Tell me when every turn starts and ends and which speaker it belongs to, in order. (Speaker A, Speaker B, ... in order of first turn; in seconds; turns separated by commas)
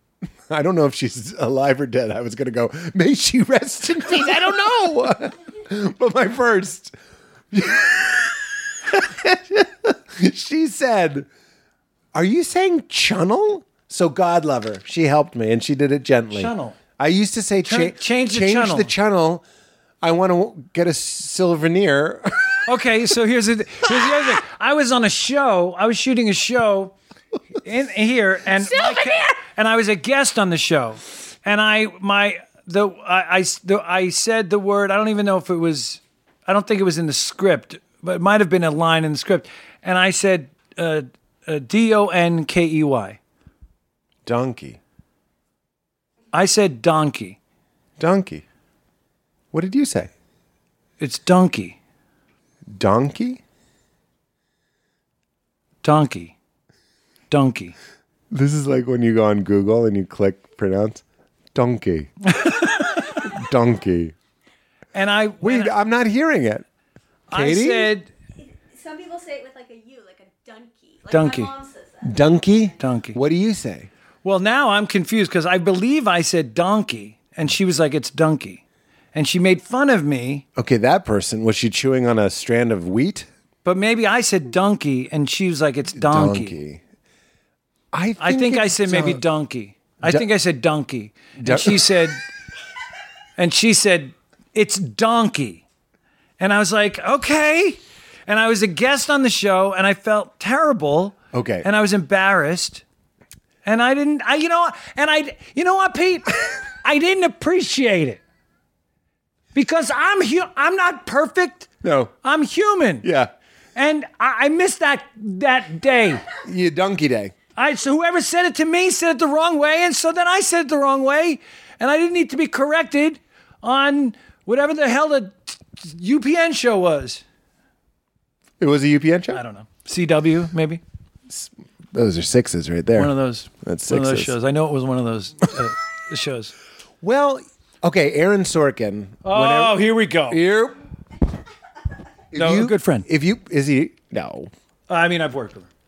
Speaker A: 0.5-7.0, Speaker A: 7.5-11.3, Speaker A: 12.1-19.4, Speaker B: 16.3-16.8, Speaker B: 17.6-18.9, Speaker A: 20.0-22.6, Speaker B: 22.6-27.0, Speaker B: 27.6-43.2, Speaker A: 28.6-29.3, Speaker A: 44.3-44.8, Speaker B: 46.3-47.4, Speaker A: 48.0-48.4, Speaker A: 49.5-50.1, Speaker B: 51.0-51.8, Speaker A: 52.7-53.4, Speaker B: 55.8-56.4, Speaker B: 57.3-57.8, Speaker A: 58.3-61.0, Speaker A: 61.5-62.1, Speaker B: 62.3-63.1, Speaker A: 63.0-64.1, Speaker B: 64.9-65.7, Speaker A: 65.4-66.7, Speaker B: 67.3-68.1, Speaker A: 67.3-67.9, Speaker C: 68.4-72.7, Speaker B: 71.1-71.5, Speaker A: 72.0-73.9, Speaker B: 72.8-73.2, Speaker B: 74.2-78.6, Speaker B: 79.1-80.5, Speaker A: 80.6-83.3, Speaker B: 83.7-86.5, Speaker A: 86.0-86.8, Speaker A: 87.9-89.2, Speaker B: 88.2-92.2, Speaker A: 91.4-92.0, Speaker B: 93.4-95.6, Speaker B: 96.4-102.8, Speaker A: 101.3-101.7, Speaker B: 103.7-108.2, Speaker B: 109.5-111.7, Speaker A: 111.8-112.1, Speaker B: 112.2-113.1, Speaker A: 113.0-113.3, Speaker B: 113.8-116.2, Speaker A: 116.4-117.3, Speaker B: 117.6-127.2, Speaker A: 128.6-129.4, Speaker B: 129.3-130.8, Speaker A: 131.3-134.3, Speaker B: 132.9-136.5, Speaker A: 137.0-140.8, Speaker B: 139.2-140.4, Speaker A: 142.3-144.5, Speaker B: 142.3-143.1, Speaker B: 144.9-145.7